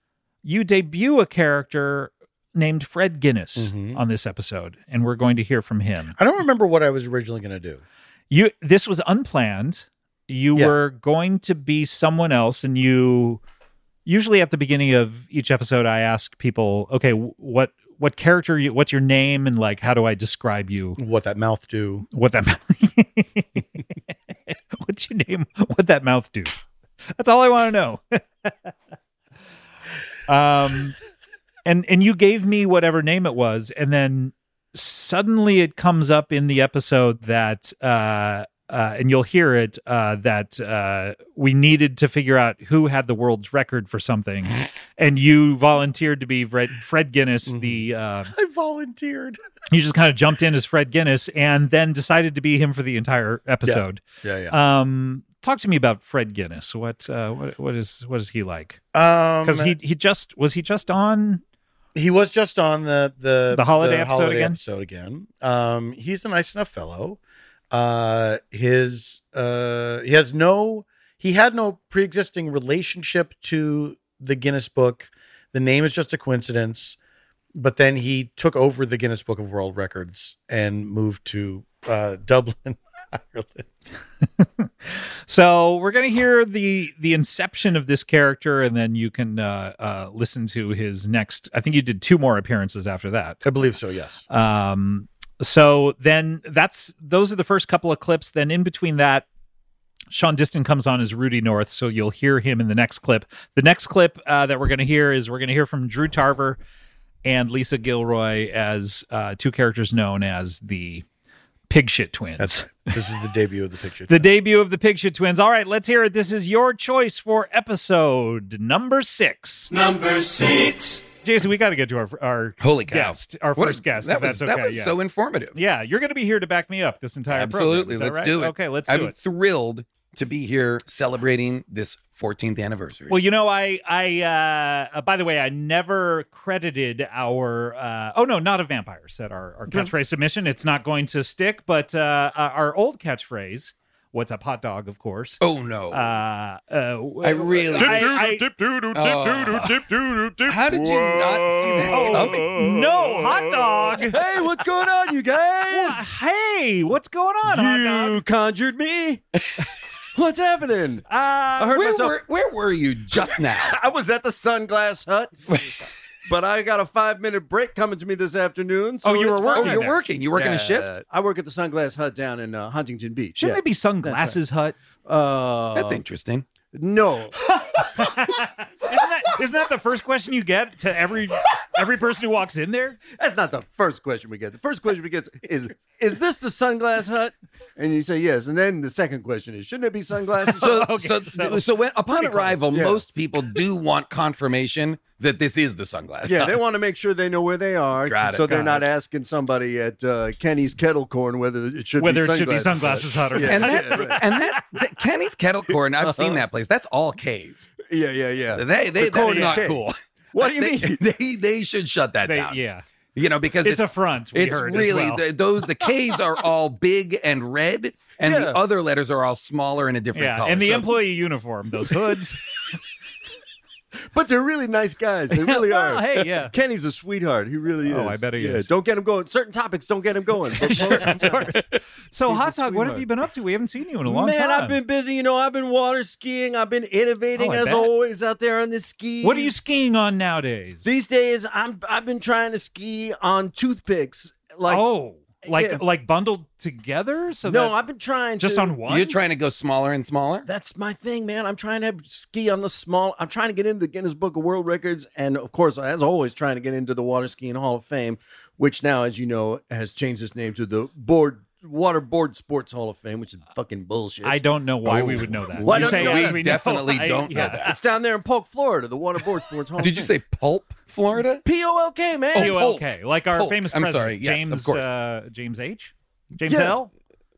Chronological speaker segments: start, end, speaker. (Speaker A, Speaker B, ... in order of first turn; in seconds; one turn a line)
Speaker A: 0.4-6.1
Speaker B: 3.5-4.0
Speaker B: 6.2-7.8
Speaker A: 8.3-13.4
Speaker A: 14.1-21.0
Speaker B: 21.0-22.1
Speaker A: 22.1-23.8
Speaker A: 24.5-26.6
Speaker A: 27.2-28.7
Speaker A: 30.3-30.9
Speaker A: 31.6-48.3
Speaker B: 47.5-49.4
Speaker A: 49.7-58.8
Speaker B: 53.6-54.5
Speaker B: 58.9-59.8
Speaker A: 59.4-61.4
Speaker B: 61.9-67.2
Speaker A: 63.5-64.6
Speaker B: 67.7-77.0
Speaker B: 77.5-83.7
Speaker A: 84.4-93.4
Speaker B: 93.4-94.2
Speaker A: 94.3-99.2
Speaker A: 100.1-106.6
Speaker A: 107.2-111.0
Speaker A: 111.7-112.9
Speaker B: 112.4-114.3
Speaker A: 114.1-119.8
Speaker A: 121.2-125.0
Speaker C: 122.6-125.6
Speaker A: 125.5-129.1
Speaker C: 127.3-133.2
Speaker A: 133.1-148.5
Speaker C: 145.4-146.1
Speaker C: 147.2-148.3
Speaker D: 147.8-153.8
Speaker C: 148.9-149.8
Speaker C: 150.4-152.5
Speaker A: 151.9-154.2
Speaker E: 154.0-156.1
Speaker A: 155.7-158.2
Speaker E: 157.4-159.2
Speaker E: 160.1-162.2
Speaker A: 161.1-161.8
Speaker C: 161.7-163.8
Speaker E: 163.2-165.4
Speaker E: 166.2-174.4
Speaker A: 169.0-170.0
Speaker C: 169.6-170.9
Speaker A: 173.4-174.7
Speaker E: 175.0-176.0
Speaker C: 175.7-176.4
Speaker E: 176.7-177.3
Speaker A: 177.7-183.0
Speaker E: 183.1-190.7
Speaker A: 190.5-192.6
Speaker C: 190.6-196.6
Speaker E: 192.6-193.0
Speaker E: 196.2-204.2
Speaker C: 198.0-198.8
Speaker A: 202.0-204.5
Speaker C: 203.4-207.7
Speaker E: 206.0-206.4
Speaker E: 207.8-211.0
Speaker C: 208.5-212.6
Speaker A: 209.1-209.7
Speaker A: 212.2-212.8
Speaker C: 213.1-220.9
Speaker A: 213.6-215.2
Speaker E: 218.2-218.6
Speaker A: 220.1-222.4
Speaker E: 224.1-233.1
Speaker A: 225.3-226.5
Speaker A: 227.8-228.7
Speaker A: 230.5-234.8
Speaker E: 234.0-239.6
Speaker A: 237.3-237.9
Speaker A: 239.2-240.9
Speaker E: 240.8-244.8
Speaker A: 244.7-247.8
Speaker E: 245.4-245.8
Speaker E: 247.4-248.8
Speaker A: 248.4-249.2
Speaker C: 248.8-250.5
Speaker E: 250.4-264.4
Speaker A: 264.2-267.8
Speaker C: 264.9-267.8
Speaker E: 265.6-266.5
Speaker E: 267.6-270.1
Speaker C: 269.8-271.4
Speaker E: 271.4-272.6
Speaker C: 272.3-274.9
Speaker A: 272.3-276.9
Speaker E: 276.5-276.8